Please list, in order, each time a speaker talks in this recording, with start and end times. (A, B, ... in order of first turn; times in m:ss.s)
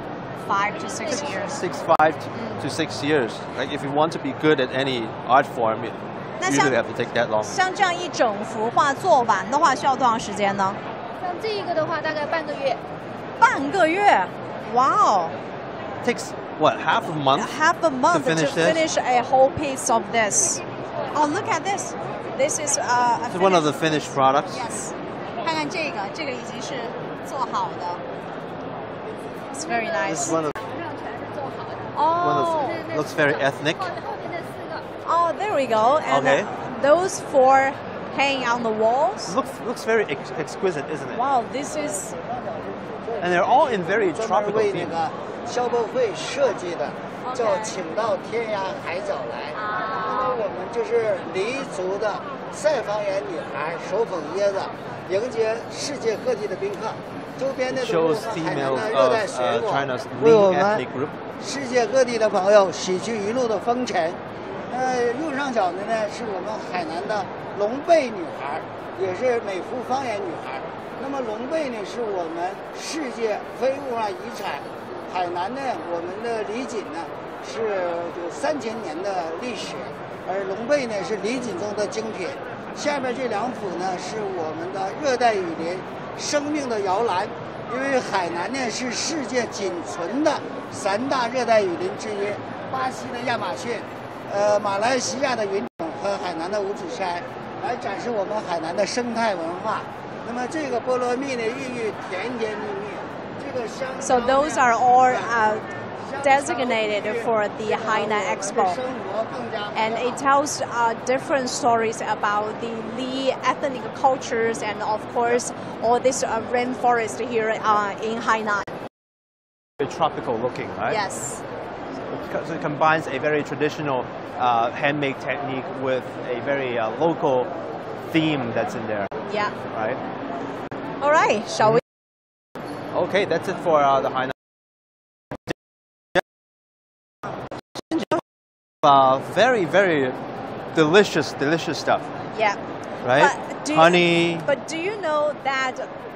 0:00.4-0:01.6 A
0:01.0-0:01.4 B
0:01.1-0:07.6 C
0:06.4-0:06.8 A
0:07.4-0:10.8 A
0:11.2-0:12.8 B
0:13.4-0:15.3 A
0:16.0-0:17.5 C
0:17.4-0:20.6 A
0:18.1-0:18.8 C
0:21.1-0:28.0 A
0:23.3-0:24.6 C
0:29.5-0:30.4 A
0:29.7-0:34.9 B
0:30.1-0:30.6 C
0:32.0-0:32.8 A
0:32.2-0:33.9 C
0:35.0-0:39.4 A
0:36.1-0:36.5 C
0:39.3-0:41.2 C
0:41.1-0:42.1 A
0:43.2-0:44.9 C
0:44.1-1:00.8 D
0:47.2-0:47.8 A
0:49.6-0:50.4 A
0:49.6-0:50.4 B
0:57.7-1:01.2 C
1:01.4-1:04.2 D
1:04.7-1:50.2 D
1:44.0-1:45.6 A
1:46.2-1:48.8 A
1:49.8-1:58.7 A
1:59.8-2:01.0 C
2:00.9-2:01.4 A
2:02.0-2:07.5 C
2:08.1-2:09.1 C
2:09.3-2:09.6 A
2:09.7-2:10.0 C
2:11.0-2:11.8 A
2:12.9-2:14.4 C
2:17.8-2:18.2 C
2:18.8-2:20.2 C
2:20.7-2:22.1 C
2:22.3-2:25.9 A
2:23.0-2:24.5 C